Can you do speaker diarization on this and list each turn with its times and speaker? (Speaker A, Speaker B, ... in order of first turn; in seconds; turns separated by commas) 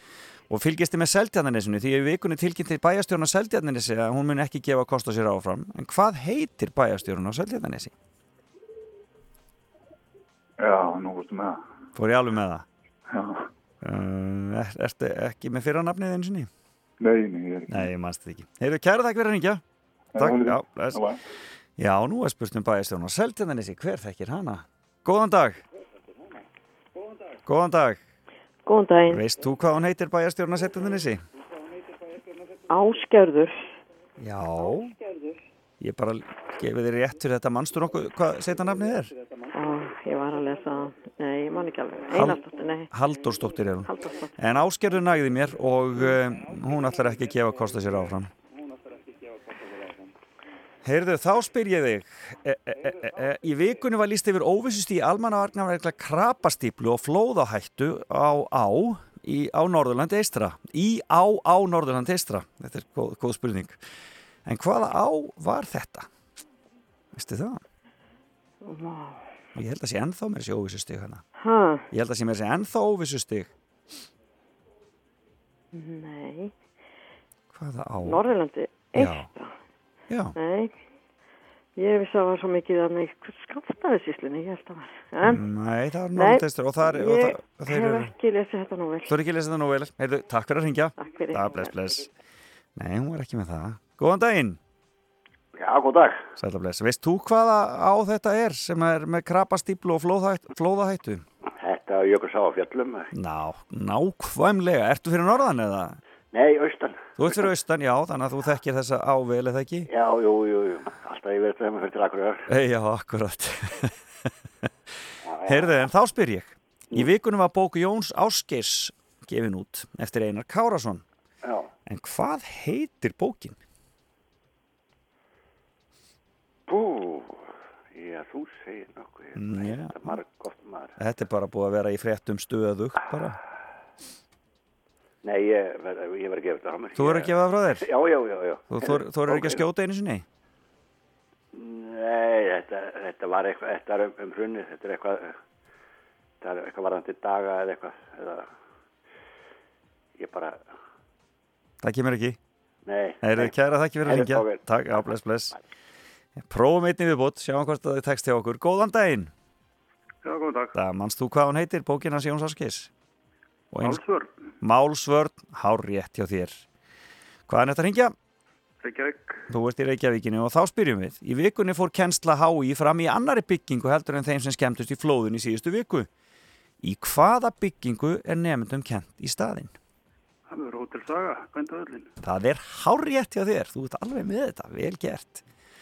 Speaker A: 0.5-7.9, Speaker B: 10.6-11.6, Speaker A: 11.9-12.7, Speaker B: 13.1-13.5, Speaker A: 13.8-16.5, Speaker B: 17.0-17.9, Speaker A: 17.7-19.6, Speaker B: 20.1-21.2, Speaker A: 20.2-21.1, Speaker A: 21.8-25.6, Speaker A: 27.4-28.0, Speaker C: 28.6-29.2, Speaker A: 29.1-31.2, Speaker C: 32.7-33.5, Speaker A: 34.2-35.0, Speaker A: 35.8-39.1, Speaker C: 39.5-42.9, Speaker A: 42.1-42.4, Speaker A: 42.9-48.3, Speaker C: 43.9-44.3, Speaker A: 50.8-63.8, Speaker A: 64.4-66.1, Speaker A: 67.1-67.6, Speaker C: 68.6-69.2, Speaker A: 69.5-71.2, Speaker C: 71.4-71.8, Speaker A: 71.9-73.5, Speaker C: 75.7-76.5, Speaker A: 77.5-78.2, Speaker C: 78.0-79.5, Speaker A: 78.9-79.3, Speaker A: 80.1-80.3, Speaker C: 80.3-80.7, Speaker C: 81.8-85.4, Speaker A: 85.2-88.1, Speaker C: 86.1-89.1, Speaker A: 89.0-92.1, Speaker C: 91.0-91.7, Speaker A: 92.8-94.6, Speaker D: 95.5-96.2, Speaker A: 96.4-101.2, Speaker D: 101.6-103.1, Speaker A: 103.1-106.0, Speaker D: 106.3-107.4, Speaker A: 107.2-109.9, Speaker D: 109.9-112.5, Speaker A: 112.5-113.9, Speaker D: 115.2-115.8, Speaker A: 115.5-121.0, Speaker D: 121.4-121.7, Speaker A: 121.8-123.6, Speaker D: 126.7-127.4, Speaker D: 127.9-130.9, Speaker A: 129.3-130.2, Speaker A: 131.0-133.4, Speaker D: 135.2-139.6, Speaker A: 136.9-137.8, Speaker A: 138.7-140.2, Speaker D: 141.5-145.4, Speaker D: 146.4-148.5, Speaker D: 150.2-150.6, Speaker A: 151.8-152.4, Speaker D: 152.8-155.1, Speaker A: 153.2-155.5, Speaker A: 156.4-159.3, Speaker E: 160.2-160.8, Speaker A: 160.7-162.9, Speaker A: 163.7-164.0, Speaker E: 163.8-164.3, Speaker A: 164.6-166.6, Speaker A: 167.5-168.1, Speaker E: 168.8-169.4, Speaker A: 169.5-176.1, Speaker A: 176.8-179.7, Speaker E: 180.5-182.1, Speaker A: 182.2-185.4